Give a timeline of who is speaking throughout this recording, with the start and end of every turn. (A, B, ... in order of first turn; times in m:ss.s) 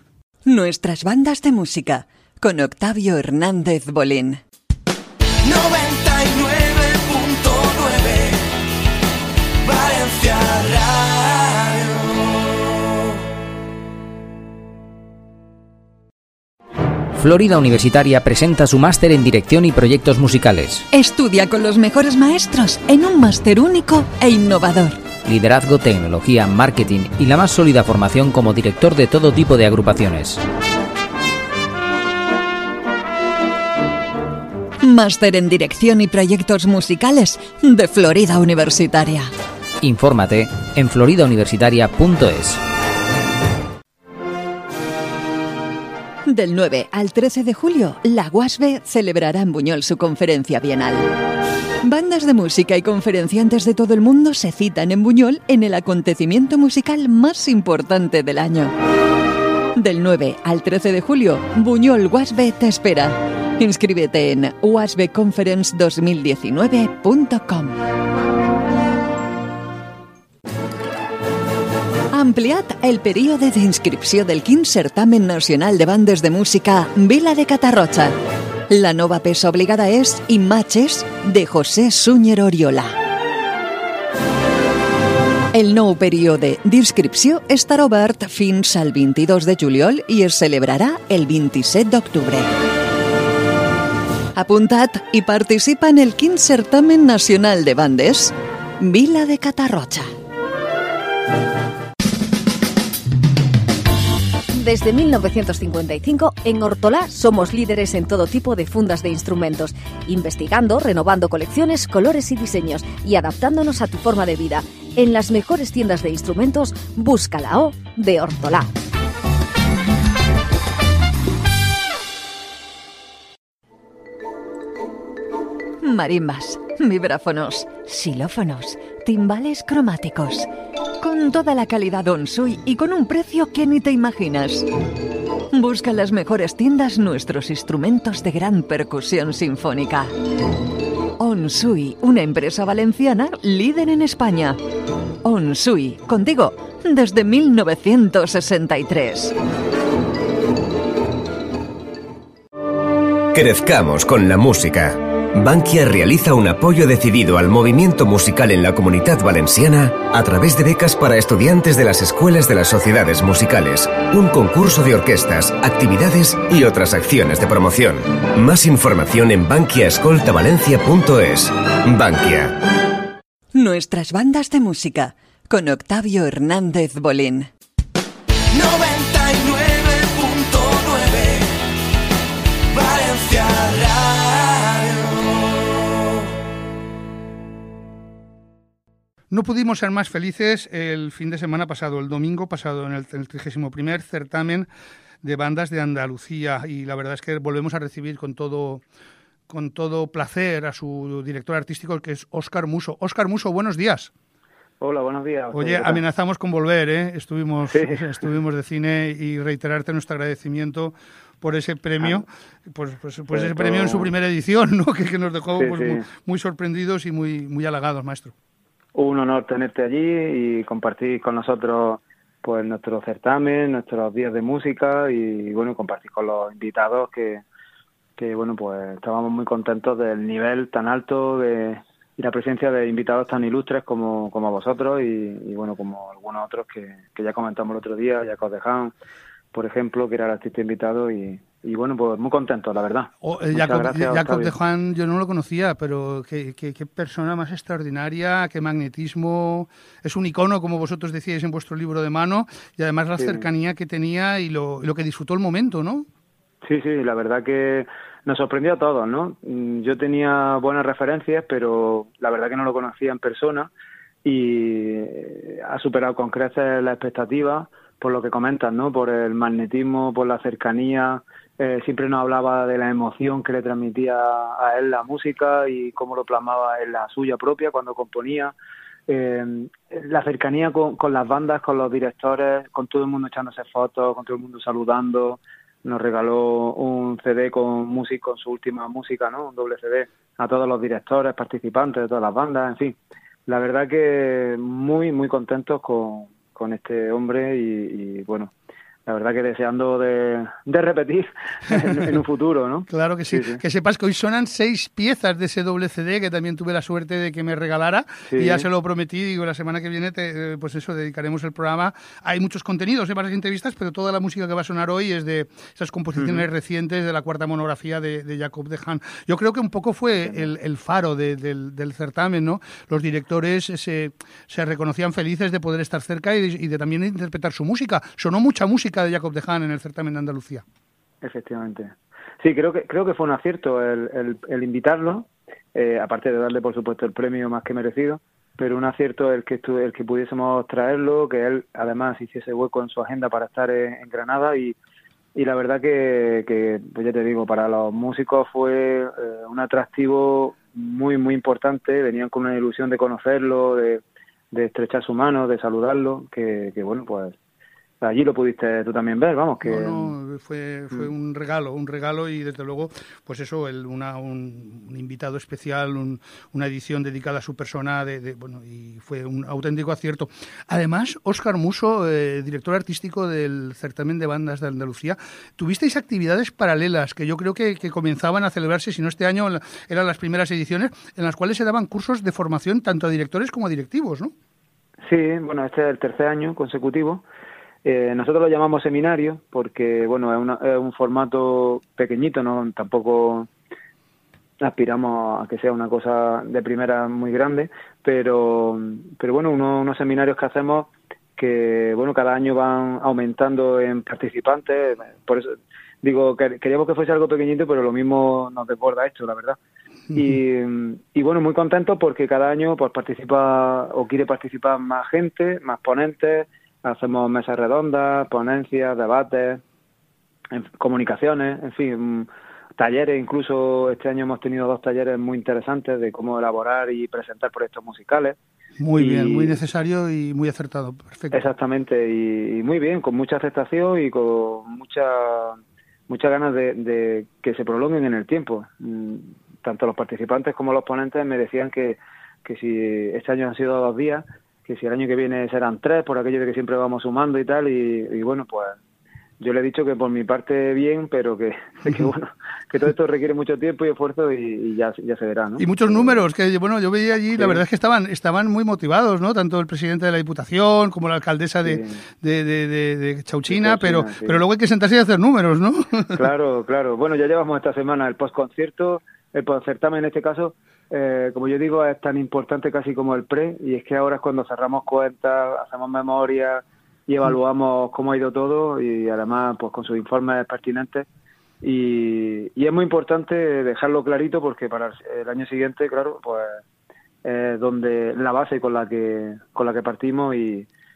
0:00.4-0:04.4 A
0:05.5-0:07.9 A
0:17.2-0:20.8 B
0:20.9-0:25.0 A
0:25.2-0:30.4 B
0:34.8-0:39.3 A
0:39.8-0:42.6 B
0:46.2-0:51.1 A
0:51.8-0:58.7 A
0:59.8-1:07.8 A
1:12.1-1:18.1 A
1:18.7-1:22.9 A
1:25.5-1:32.5 A
1:34.4-1:40.1 A
1:44.5-1:58.7 C
2:05.8-2:10.5 A
2:11.0-2:14.7 A
2:15.5-2:20.1 A
2:21.2-2:24.6 A
2:25.2-2:29.3 A
2:33.3-2:52.6 D
2:53.5-2:57.5 A
3:09.3-3:14.7 E
3:15.2-3:18.8 E
3:19.5-3:24.1 E
3:24.8-3:26.0 F
3:25.5-3:38.3 E
3:27.7-3:28.1 F
3:33.3-3:34.1 F
3:35.6-3:36.0 F
3:38.9-3:47.4 F
3:48.2-3:58.9 F
3:59.5-4:04.5 F
4:03.2-4:16.1 E
4:13.2-4:13.4 F
4:16.6-4:23.7 F
4:24.2-4:38.5 F
4:39.1-4:58.5 F
4:59.0-5:03.6 F
5:01.7-5:02.2 E
5:02.9-5:30.6 E
5:08.3-5:08.6 F
5:16.2-5:16.4 F
5:31.2-5:44.8 F
5:45.3-5:57.4 F
5:58.0-6:00.1 F
5:59.6-6:24.3 E
6:25.0-6:27.2 F
6:27.8-6:33.5 F
6:34.6-6:49.6 F
6:50.1-6:59.6 F
7:00.5-7:08.4 F
7:08.8-7:11.4 E
7:09.0-7:09.5 F
7:11.3-7:28.8 F
7:29.4-7:36.2 F
7:35.6-7:46.3 E
7:37.4-7:37.6 F
7:41.6-7:42.0 F
7:43.5-7:44.4 F
7:46.2-8:01.0 F
8:01.6-8:06.6 F
8:07.2-8:10.7 F